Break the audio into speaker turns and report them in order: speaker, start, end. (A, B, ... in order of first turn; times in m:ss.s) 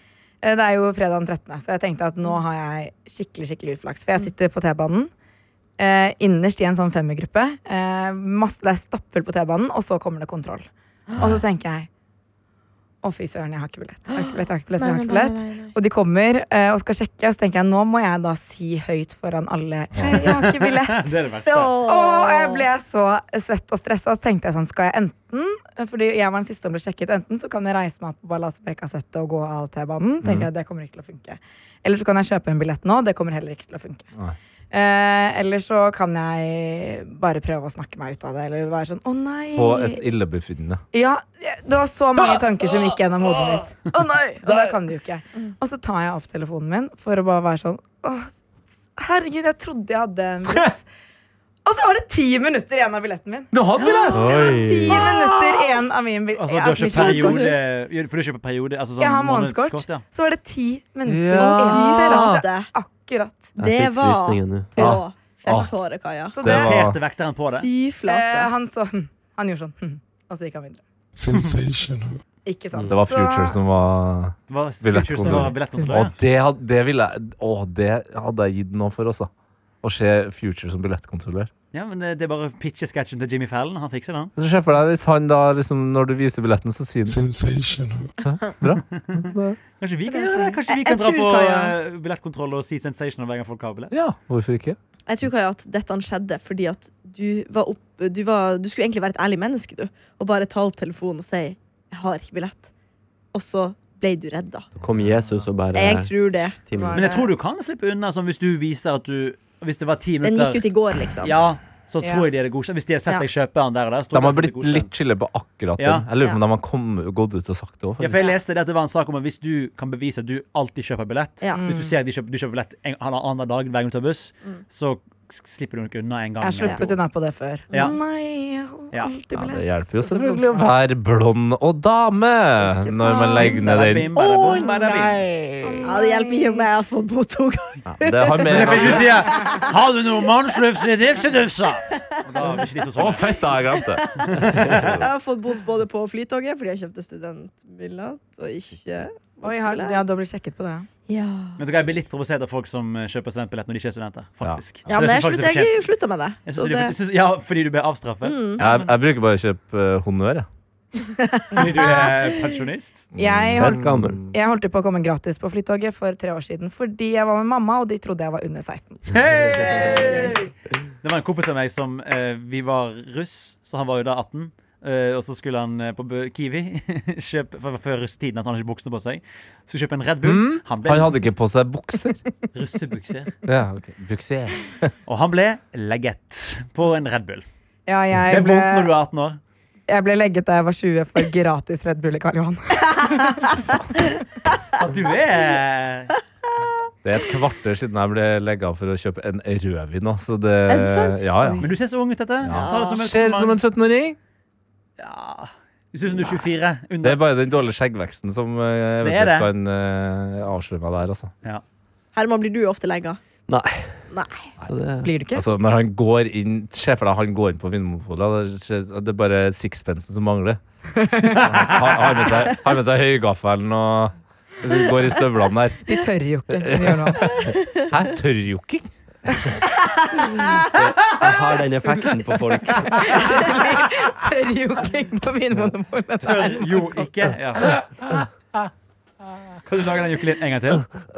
0:00.4-0:05.1 A
0:05.8-0:11.9 A
0:13.0-0:21.1 A
0:14.1-0:15.7 B
0:19.9-0:20.2 C
0:20.1-0:21.8 D
0:21.4-0:22.7 B
0:21.8-0:34.0 A
0:30.2-0:30.5 C
0:34.7-0:40.1 A
0:39.5-0:40.8 C
0:40.9-0:48.3 A
0:42.2-0:43.6 C
0:44.4-0:44.8 C
0:49.0-0:50.8 A
0:51.6-0:57.5 A
0:53.5-0:54.5 C
0:53.9-0:54.2 B
0:54.1-0:55.0 E
0:56.3-1:00.0 D
0:56.9-0:57.5 B
0:59.0-1:03.5 A
1:01.1-1:02.4 C
1:01.4-1:02.7 B
1:03.6-1:06.4 B
1:03.6-1:04.8 E
1:04.8-1:05.7 C
1:06.3-1:06.8 A
1:06.4-1:07.0 C
1:06.4-1:07.7 D
1:07.6-1:08.5 B
1:08.0-1:10.8 A
1:11.2-1:12.2 F
1:12.4-1:13.6 A
1:12.9-1:19.3 C
1:14.5-1:16.2 D
1:19.8-1:21.5 C
1:21.7-1:24.3 D
1:24.4-1:27.2 C
1:27.1-1:28.1 F
1:28.2-1:29.6 C
1:28.9-1:33.9 D
1:30.1-1:30.6 A
1:30.7-1:31.7 B
1:33.9-1:34.8 C
1:35.1-1:42.7 B
1:43.3-1:44.7 B
1:44.8-1:47.0 E
1:45.7-1:46.6 B
1:46.7-1:47.3 A
1:46.9-1:50.6 D
1:50.2-1:51.4 B
1:51.2-1:54.9 D
1:54.1-1:58.2 C
1:55.8-1:56.1 D
1:58.0-2:07.0 D
2:01.5-2:01.9 A
2:06.4-2:10.7 A
2:07.7-2:08.0 D
2:07.7-2:08.0 B
2:09.3-2:15.8 C
2:12.6-2:13.7 A
2:13.3-2:15.2 D
2:15.6-2:16.6 A
2:15.8-2:19.6 B
2:17.8-2:19.3 C
2:18.5-2:23.4 D
2:22.9-2:25.0 C
2:23.8-2:30.0 B
2:24.3-2:25.0 D
2:29.4-2:30.9 A
2:31.1-2:31.6 B
2:31.6-2:35.8 D
2:34.9-2:36.9 B
2:36.4-2:38.9 D
2:38.2-2:38.6 B
2:38.6-2:40.5 C
2:41.0-2:42.1 B
2:41.5-2:43.0 D
2:43.1-2:44.3 C
2:43.2-2:49.1 A
2:43.6-2:44.2 E
2:49.1-2:50.5 D
2:51.0-3:01.2 D
3:00.2-3:02.2 C
3:02.5-3:03.4 D
3:03.4-3:04.9 C
3:05.0-3:07.4 D
3:07.9-3:08.9 A
3:08.3-3:09.4 D
3:09.9-3:13.8 A
3:14.8-3:16.2 D
3:17.0-3:21.7 C
3:20.7-3:21.6 B
3:21.6-3:23.6 D
3:22.4-3:24.2 C
3:22.5-3:23.0 B
3:25.0-3:27.2 D
3:26.2-3:26.4 B
3:27.0-3:31.3 C
3:29.0-3:29.5 D
3:32.1-3:33.2 B
3:33.5-3:34.1 E
3:34.1-3:34.5 B
3:34.6-3:35.1 E
3:35.0-3:35.4 A
3:35.3-3:40.6 C
3:41.0-3:41.4 A
3:41.2-3:45.8 C
3:45.8-3:47.3 A
3:46.5-3:48.9 C
3:50.6-3:53.3 E
3:52.9-3:56.9 A
3:56.2-3:58.0 D
3:58.2-3:58.7 C
3:59.6-4:00.9 D